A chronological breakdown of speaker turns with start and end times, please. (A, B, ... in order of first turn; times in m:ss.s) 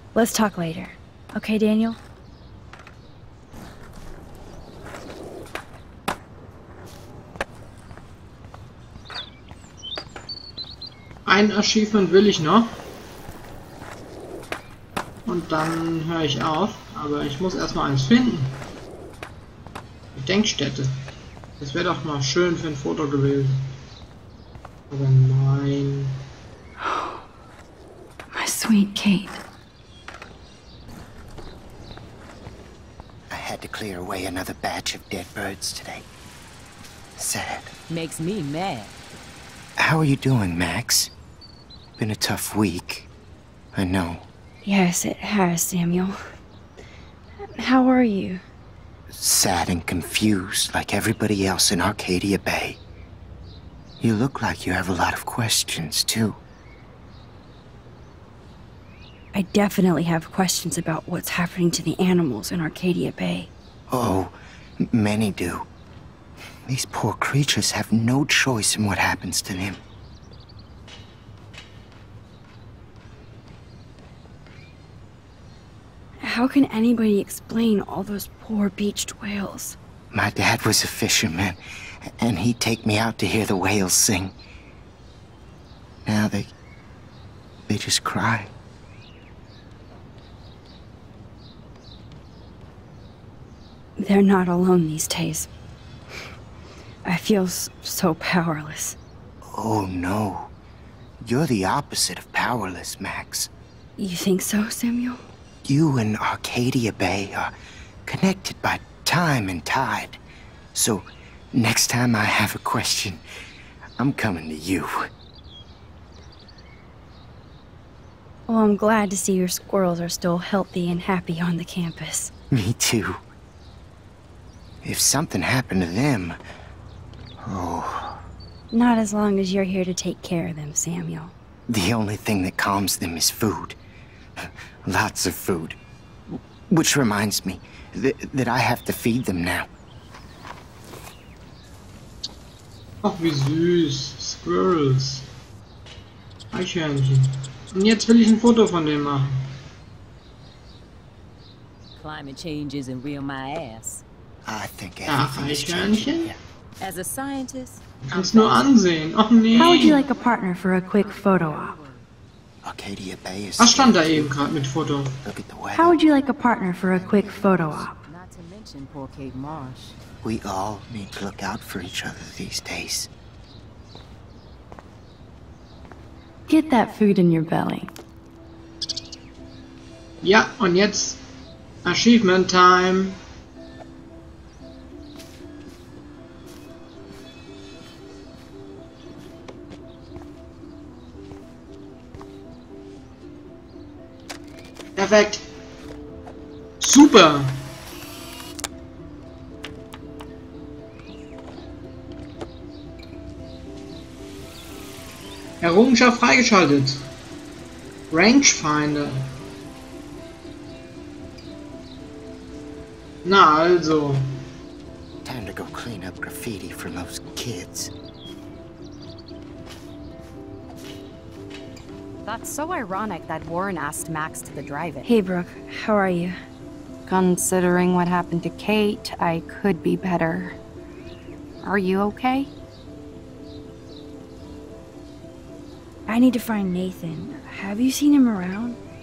0:00.1-0:02.0 A
0:11.2-0:12.7 B
0:15.2-0:18.5 B
0:20.1-0:20.9 B
0:21.6-0:23.5 B
0:24.9-0:26.1 B
0:26.8-0:27.2 A
0:28.3-0:29.4 A
0:33.3-0:36.1 C
0:37.2-0:37.7 C
0:37.9-0:38.9 D
0:39.8-0:41.1 C
0:42.0-0:43.1 C
0:43.7-0:44.3 C
0:44.6-0:46.2 A
0:47.5-0:48.4 A
0:49.1-0:52.8 C
0:54.0-0:56.4 C
0:59.3-1:03.5 A
1:03.9-1:05.6 C
1:06.6-1:09.8 C
1:16.2-1:19.8 A
1:20.1-1:24.3 C
1:26.0-1:26.5 C
1:27.7-1:28.5 C
1:34.0-1:35.5 A
1:37.0-1:39.0 A
1:39.5-1:40.5 C
1:41.2-1:43.5 C
1:44.0-1:45.2 A
1:45.6-1:47.5 C
1:48.0-1:50.2 C
1:50.7-1:53.2 C
1:54.0-1:55.1 C
1:58.5-2:02.3 A
2:02.5-2:03.2 C
2:04.8-2:06.4 C
2:07.4-2:08.2 C
2:08.7-2:11.3 A
2:11.7-2:13.8 C
2:14.4-2:15.8 C
2:16.3-2:19.7 C
2:23.0-2:25.2 B
2:26.5-2:29.3 B
2:31.9-2:34.0 D
2:34.5-2:36.4 C
2:35.0-2:36.3 B
2:36.8-2:38.7 D
2:38.0-2:40.0 B
2:39.5-2:42.0 D
2:39.6-2:41.7 A
2:42.6-2:44.3 C
2:43.6-2:45.1 B
2:45.2-2:46.0 C
2:45.7-2:48.0 A
2:46.0-2:50.0 D
2:50.2-2:53.1 C
2:56.5-2:57.9 A
3:00.2-3:01.2 B
3:01.8-3:03.2 B
3:15.0-3:15.4 B
3:16.8-3:17.5 B
3:25.6-3:27.0 B
3:28.1-3:29.2 B
3:33.2-3:34.2 B
3:35.2-3:37.9 C
3:42.2-3:45.1 E
3:45.0-3:46.4 A
3:47.0-3:50.6 E
3:51.6-3:52.5 E
3:56.1-3:58.8 A